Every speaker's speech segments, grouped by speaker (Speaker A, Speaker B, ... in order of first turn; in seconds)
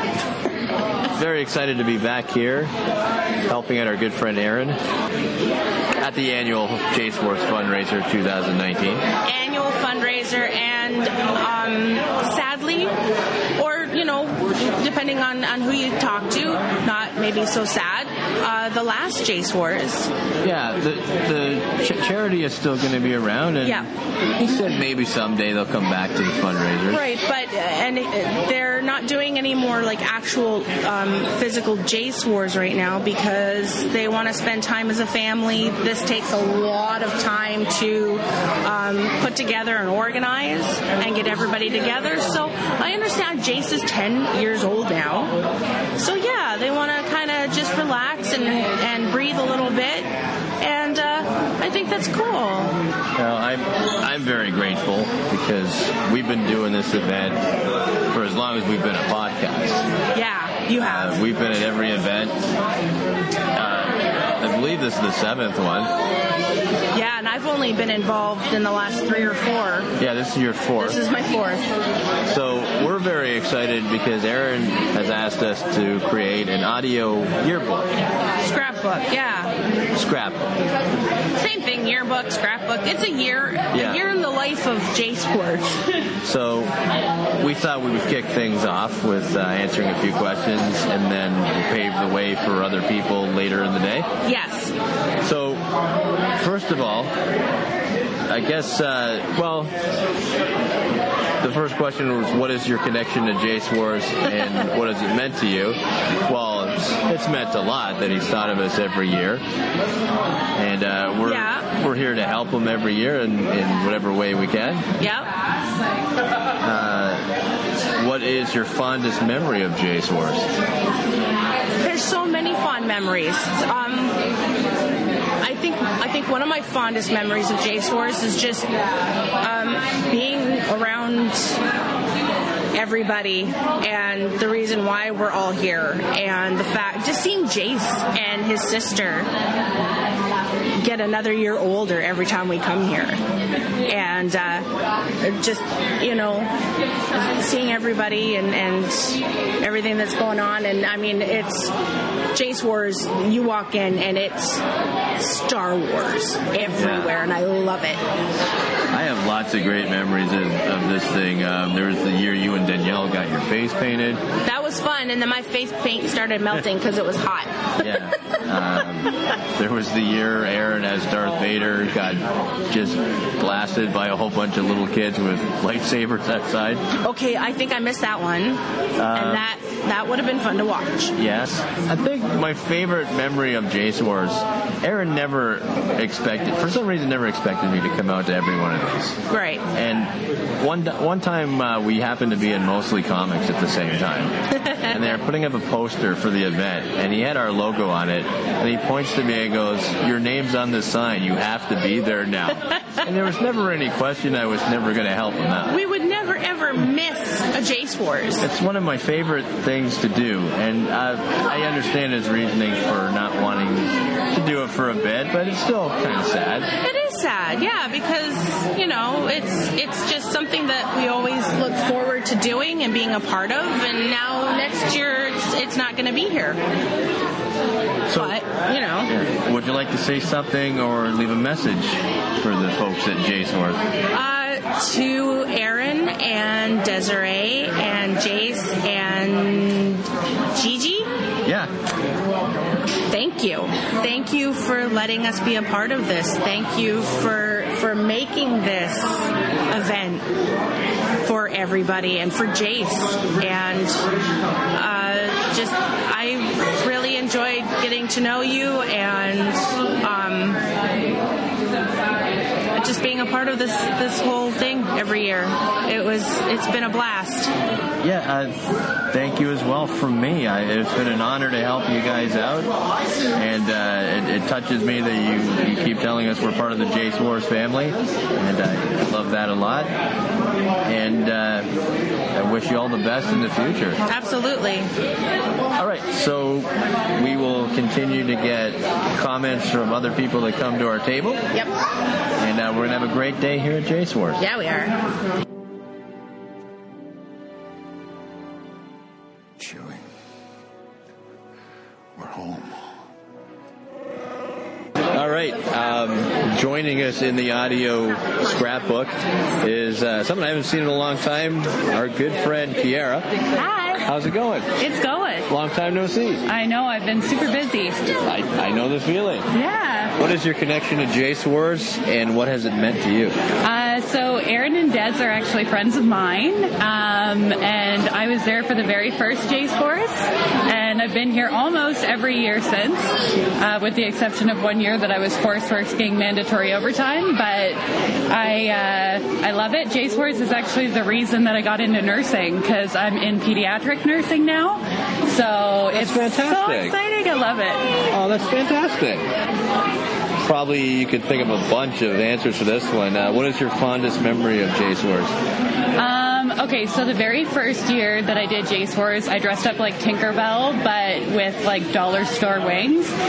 Speaker A: 1.2-2.7, 3.5-4.8, 6.0-9.0, 20.4-27.0, 53.2-57.4, 58.1-59.8, 60.8-62.3, 63.5-65.9, 70.0-71.0, 72.2-77.9, 80.0-80.4, 83.7-84.0, 86.2-86.7, 87.4-94.1, 95.2-95.6, 96.4-97.1, 98.3-99.7, 101.4-109.4, 110.5-114.8, 116.6-117.2, 117.9-120.5, 156.7-157.1, 158.9-164.2, 167.8-176.8, 179.0-179.4, 181.2-189.2, 189.7-194.3, 194.9-205.8, 208.4-216.7, 228.1-228.3, 229.1-233.8, 268.0-268.6, 269.1-272.7, 273.3-279.9, 280.8-281.7, 282.3-284.0, 285.8-291.4, 292.4-294.4, 305.1-313.3, 314.0-314.7, 315.5-316.4, 318.2-319.4, 320.2-323.4, 345.9-346.9, 348.1-349.2, 350.4-355.3
Speaker B: 9.2-12.9, 13.6-20.1, 26.9-45.4, 46.0-52.7, 60.1-61.2, 66.9-69.9, 70.8-71.7, 78.4-79.5, 81.3-85.8, 94.2-94.7, 111.2-111.7, 115.0-115.3, 121.8-124.2, 125.4-128.7, 129.4-131.6, 132.7-139.3, 140.8-143.2, 143.8-144.7, 145.2-146.5, 147.1-151.7, 152.3-154.6, 155.2-158.0, 164.4-167.6, 177.0-178.6, 179.1-181.1, 189.3-189.6, 205.7-208.4, 216.8-226.6, 228.1-229.1, 234.1-241.1, 243.1-250.2, 251.2-254.1, 254.7-260.6, 262.8-267.5, 284.0-284.9, 294.4-294.9
Speaker C: 313.6-314.0, 314.8-315.5, 316.4-318.1, 319.5-320.1, 323.6-347.9, 356.0-363.1